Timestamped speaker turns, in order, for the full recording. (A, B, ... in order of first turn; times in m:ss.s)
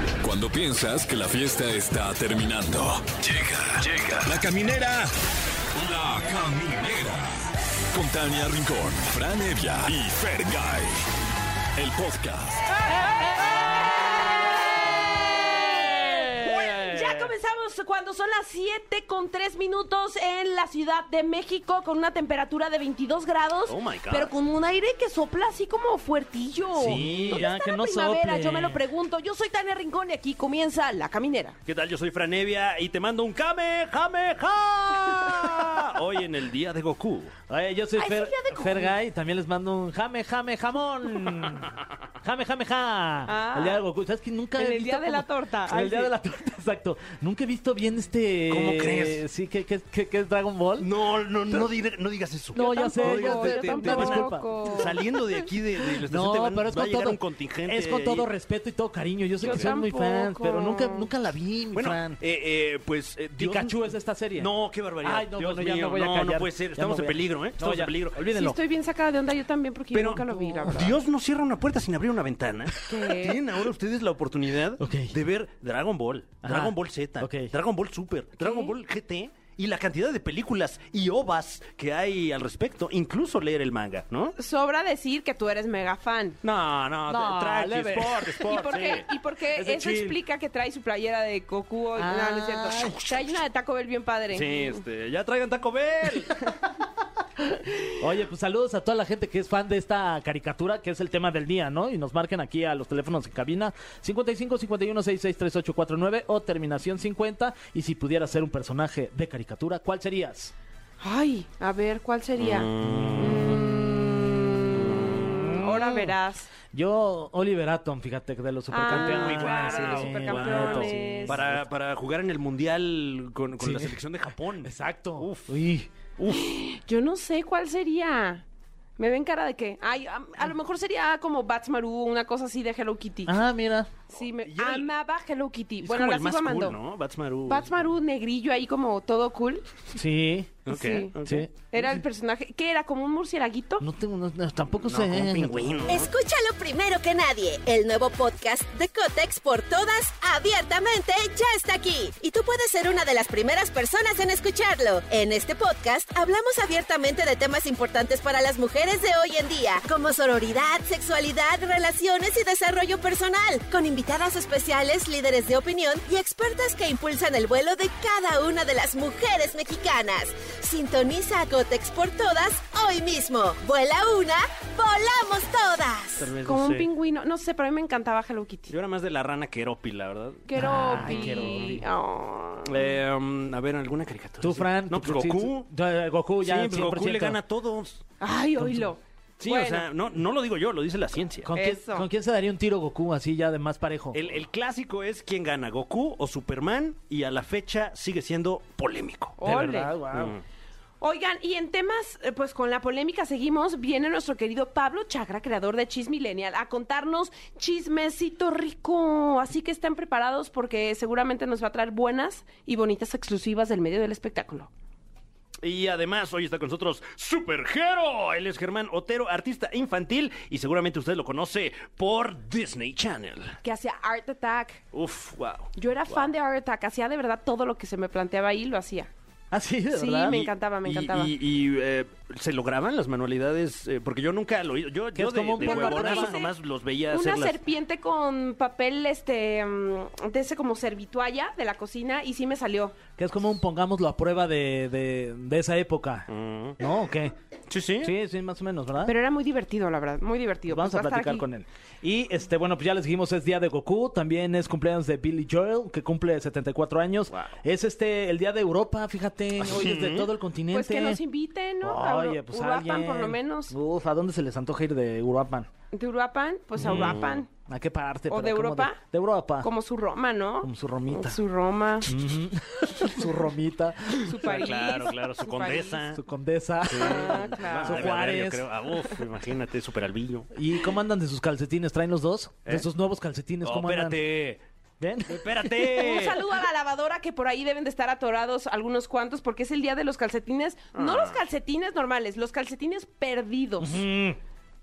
0:00.2-0:05.1 A
0:05.8-0:11.0 A
0:11.8-0:12.6 A
0:13.9-0:14.2 B
0:14.9-0:31.6 B
0:16.5-0:17.3 C
0:23.7-0:24.3 C
0:26.8-0:27.4 C
0:27.0-0:28.8 D
0:31.7-0:37.3 C
0:37.5-0:41.7 D
0:38.0-0:38.9 B
0:42.2-0:50.9 D
0:43.2-0:43.8 B
0:44.6-0:46.1 B
0:48.5-0:49.2 C
0:50.8-0:58.3 C
0:52.5-0:55.1 D
0:52.5-0:55.2 B
0:55.9-1:02.2 D
0:59.4-1:01.1 B
0:59.4-0:59.7 C
1:01.7-1:03.8 C
1:03.4-1:08.6 D
1:04.4-1:08.2 C
1:08.3-1:11.0 B
1:09.9-1:24.4 C
1:12.8-1:13.4 B
1:14.8-1:15.2 D
1:16.4-1:17.5 D
1:18.4-1:18.7 B
1:24.4-1:26.4 B
1:26.4-1:29.1 C
1:27.1-1:28.7 D
1:28.5-1:34.8 B
1:29.5-1:30.2 D
1:32.0-1:33.1 D
1:34.3-1:36.4 C
1:38.0-1:50.5 D
1:51.0-1:52.7 B
1:52.4-1:53.6 C
1:52.8-1:53.6 D
1:53.2-1:54.6 B
1:54.7-1:55.3 C
1:55.3-1:56.1 D
1:55.5-1:56.5 B
1:56.7-2:01.6 D
1:58.7-2:01.4 B
1:58.9-2:05.5 C
2:03.6-2:03.9 D
2:04.6-2:05.9 D
2:06.2-2:06.5 C
2:06.3-2:08.4 B
2:09.0-2:13.4 B
2:13.3-2:13.9 D
2:14.1-2:16.8 B
2:14.1-2:14.9 C
2:15.8-2:17.7 C
2:17.5-2:19.7 B
2:20.0-2:20.6 D
2:20.7-2:21.5 C
2:20.7-2:23.8 B
2:21.2-2:21.5 D
2:23.8-2:26.0 D
2:24.8-2:26.1 C
2:25.9-2:56.3 E
2:56.2-2:56.9 C
2:56.4-2:58.7 B
2:58.7-3:00.4 C
3:00.5-3:02.8 B
3:00.6-3:01.8 D
3:01.0-3:01.8 C
3:02.6-3:05.7 C
3:04.4-3:07.4 D
3:06.4-3:08.0 C
3:08.2-3:09.9 B
3:08.6-3:08.9 D
3:09.4-3:11.5 C
3:11.4-3:14.2 D
3:11.6-3:12.1 B
3:14.1-3:20.4 C
3:19.4-3:19.9 B
3:19.4-3:20.4 D
3:21.0-3:34.7 B
3:35.6-3:43.6 C
3:43.6-3:44.8 B
3:44.9-3:46.3 C
3:45.8-3:49.1 B
3:49.5-3:50.4 D
3:49.9-3:51.3 B
3:50.3-3:57.6 C
3:55.2-3:56.4 D
3:55.6-3:56.5 B
3:57.1-4:03.0 B
4:03.2-4:07.3 D
4:06.3-4:06.8 C
4:07.7-4:08.1 C
4:08.0-4:09.1 D
4:09.0-4:11.5 B
4:10.7-4:21.2 D
4:17.3-4:17.6 C
4:19.6-4:20.3 C
4:20.7-4:23.7 B
4:21.8-4:25.7 D
4:25.9-4:27.5 B
4:26.8-4:27.4 C
4:26.8-4:29.7 D
4:28.3-4:29.0 B
4:29.6-4:32.1 B
4:30.6-4:31.4 D
4:32.1-4:35.0 D
4:34.2-4:36.0 B
4:34.4-4:36.2 C
4:36.1-4:38.7 D
4:36.9-4:40.5 C
4:37.0-4:38.2 B
4:40.5-4:44.2 D
4:43.6-4:44.6 C
4:45.0-4:45.4 D
4:45.3-4:46.4 C
4:45.9-4:54.0 B
4:50.9-4:51.4 C
4:53.8-4:54.4 D